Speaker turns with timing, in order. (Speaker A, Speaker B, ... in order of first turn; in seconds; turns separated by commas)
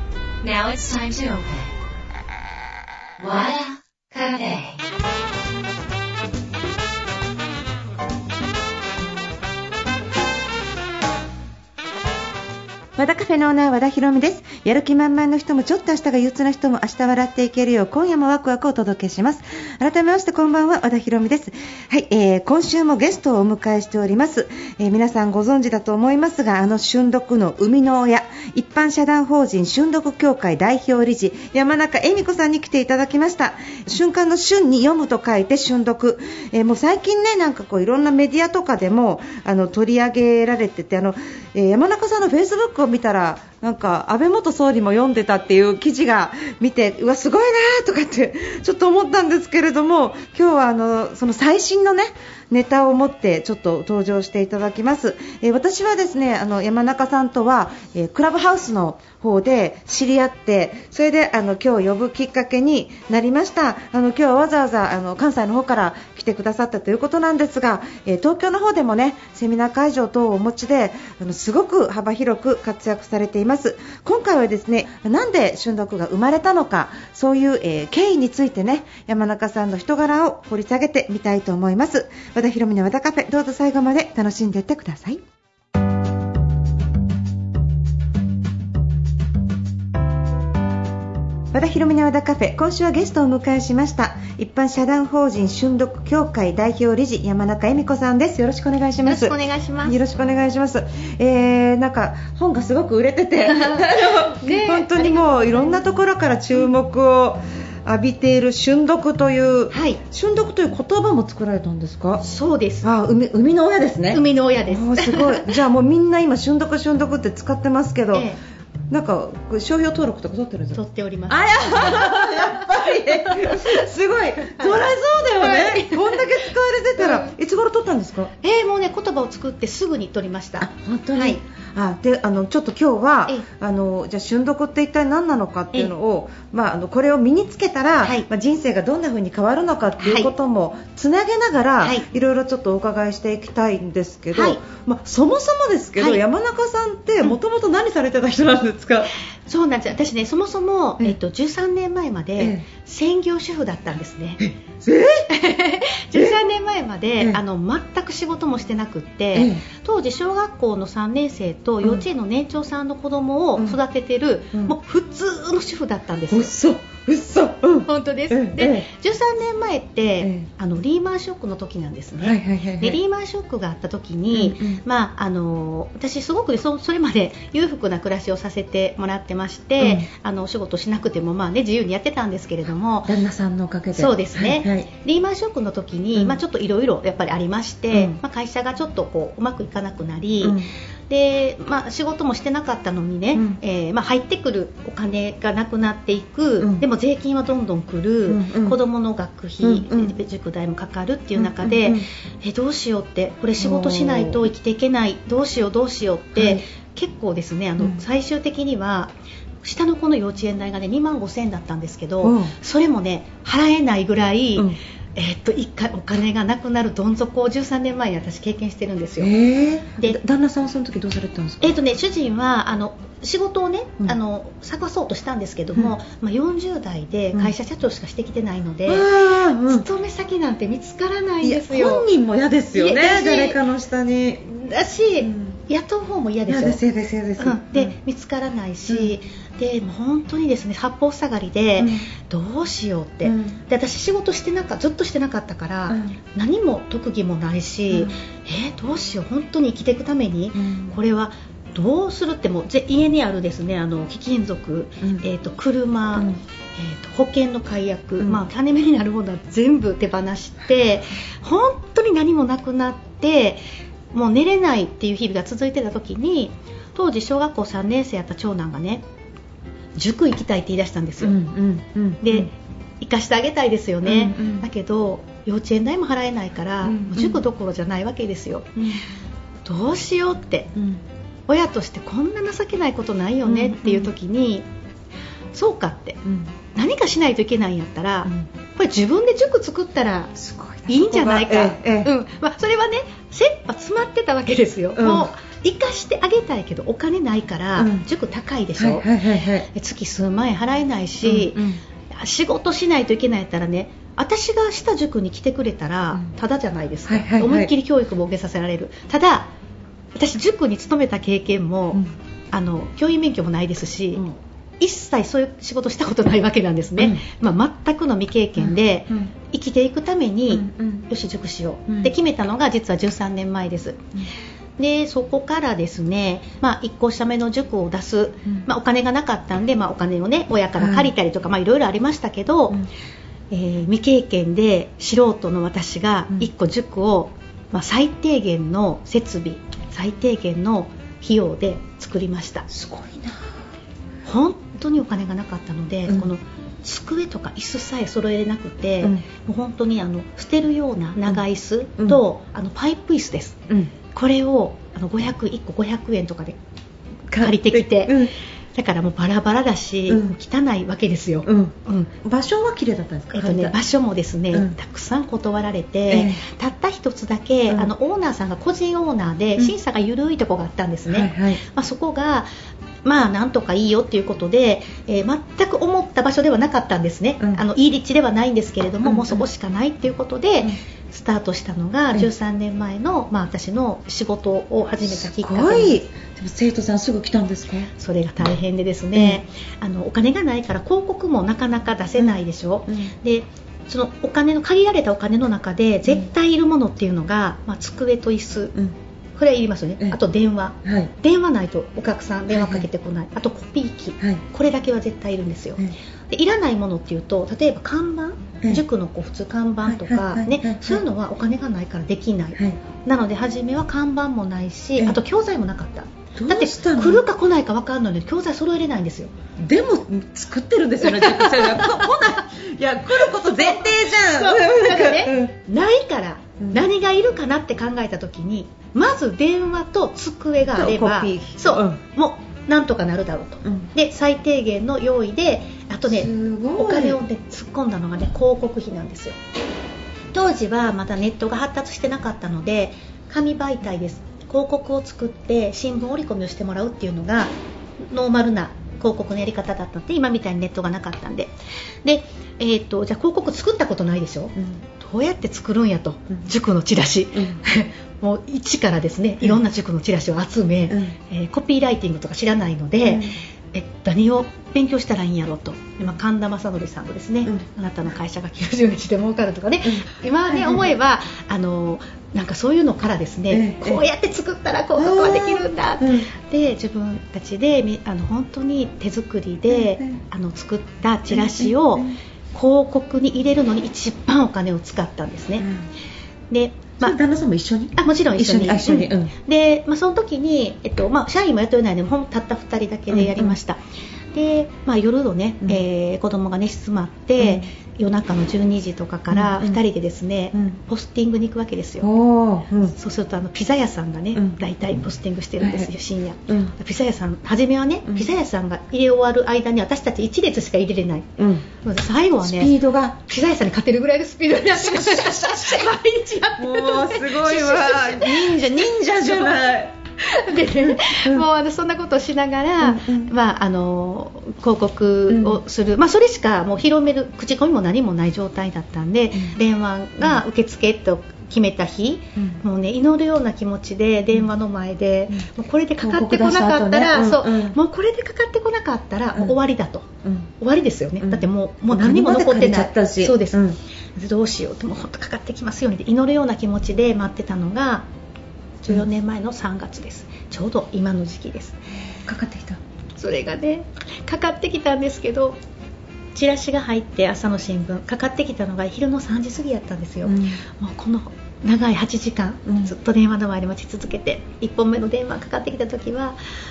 Speaker A: 0.4-1.7, Speaker A: 3.2-4.8, Speaker B: 13.0-85.2, Speaker B: 91.5-112.2, Speaker C: 99.0-100.0, Speaker C: 103.4-105.8, Speaker C: 109.7-110.0, Speaker C: 112.2-112.9, Speaker B: 112.8-118.3, Speaker C: 114.1-115.5, Speaker C: 118.1-118.4, Speaker B: 118.9-128.3, Speaker C: 120.7-123.8, Speaker C: 124.5-127.3, Speaker C: 128.4-131.4, Speaker B: 130.6-149.1, Speaker C: 140.0-140.3, Speaker C: 144.3-144.6, Speaker C: 149.4-154.4, Speaker B: 152.4-152.6, Speaker B: 154.4-155.3, Speaker C: 155.3-166.5, Speaker B: 159.3-159.6, Speaker B: 166.3-168.9, Speaker C: 167.8-183.1, Speaker B: 170.2-170.5, Speaker B: 172.2-173.0, Speaker B: 174.3-174.8, Speaker B: 179.8-180.1, Speaker B: 183.1-184.9, Speaker C: 183.9-219.3, Speaker B: 190.4-190.7, Speaker B: 193.3-193.6, Speaker B: 198.3-198.8, Speaker B: 199.6-200.2, Speaker B: 201.4-202.0, Speaker B: 203.6-204.4, Speaker B: 206.3-206.6, Speaker B: 212.2-212.5, Speaker B: 219.2-221.7, Speaker C: 221.6-229.1, Speaker B: 228.9-229.8, Speaker C: 229.7-232.1, Speaker B: 231.4-234.5, Speaker C: 232.7-233.6, Speaker C: 234.5-236.8, Speaker B: 235.2-235.6, Speaker B: 236.5-237.9, Speaker C: 237.4-263.6, Speaker B: 238.9-239.1, Speaker B: 241.8-242.1, Speaker B: 243.2-243.6, Speaker B: 245.9-246.1, Speaker B: 250.5-250.9, Speaker C: 264.1-269.0, Speaker C: 269.9-271.4, Speaker B: 271.2-272.5, Speaker C: 272.2-278.9, Speaker B: 274.0-274.7, Speaker B: 276.8-277.4, Speaker C: 279.6-280.7, Speaker B: 280.7-281.0, Speaker C: 281.5-284.6, Speaker B: 283.4-284.1, Speaker C: 285.5-286.2, Speaker B: 286.2-286.5, Speaker C: 286.7-290.3, Speaker B: 290.4-292.1, Speaker C: 290.9-299.1, Speaker B: 294.9-295.3, Speaker B: 297.8-298.1, Speaker B: 298.8-299.7, Speaker C: 299.7-309.5, Speaker B: 301.2-301.8, Speaker B: 307.1-307.7, Speaker C: 310.1-314.3, Speaker C: 314.8-324.0, Speaker B: 320.5-321.1, Speaker B: 321.9-322.1, Speaker C: 324.8-332.8, Speaker B: 330.8-331.1, Speaker C: 333.5-342.7, Speaker B: 342.7-343.5, Speaker C: 344.2-353.6, Speaker C: 354.1-356.6, Speaker B: 357.3-358.3, Speaker C: 357.3-362.1, Speaker B: 360.1-360.3, Speaker B: 361.4-363.7, Speaker C: 363.3-372.5, Speaker B: 366.1-366.4, Speaker B: 371.1-371.6, Speaker C: 373.0-386.0, Speaker B: 379.0-379.4, Speaker B: 385.1-387.9, Speaker C: 387.9-398.8, Speaker C: 399.4-419.4, Speaker B: 400.8-401.1, Speaker B: 402.5-402.9, Speaker B: 409.8-411.0, Speaker B: 416.4-417.2, Speaker B: 419.6-425.5, Speaker C: 421.0-422.4, Speaker C: 423.3-439.4, Speaker B: 430.7-432.0, Speaker B: 436.1-437.2, Speaker C: 440.3-451.5, Speaker C: 452.0-485.7, Speaker B: 457.3-457.6, Speaker B: 460.9-461.1, Speaker B: 463.0-463.3, Speaker B: 469.8-470.9, Speaker B: 473.5-474.0, Speaker B: 474.9-476.3, Speaker B: 479.7-480.2, Speaker B: 481.3-482.1, Speaker B: 485.6-485.9, Speaker C: 486.5-487.2, Speaker B: 487.0-489.3, Speaker C: 487.9-493.8, Speaker B: 493.1-493.6, Speaker C: 494.3-502.1, Speaker B: 497.4-497.6, Speaker B: 499.3-499.8, Speaker B: 502.0-502.9, Speaker C: 502.9-548.0, Speaker B: 504.3-504.6, Speaker B: 505.6-505.9, Speaker B: 506.5-506.7, Speaker B: 511.4-511.6, Speaker B: 512.4-513.1, Speaker B: 514.7-516.0, Speaker B: 516.6-519.9, Speaker B: 521.0-521.5, Speaker B: 522.8-523.3, Speaker B: 525.3-525.6, Speaker B: 536.0-537.8, Speaker B: 541.2-543.8, Speaker C: 548.8-551.8, Speaker B: 552.2-552.8, Speaker C: 553.2-555.6, Speaker C: 556.3-566.4, Speaker B: 560.2-560.6, Speaker B: 562.6-562.9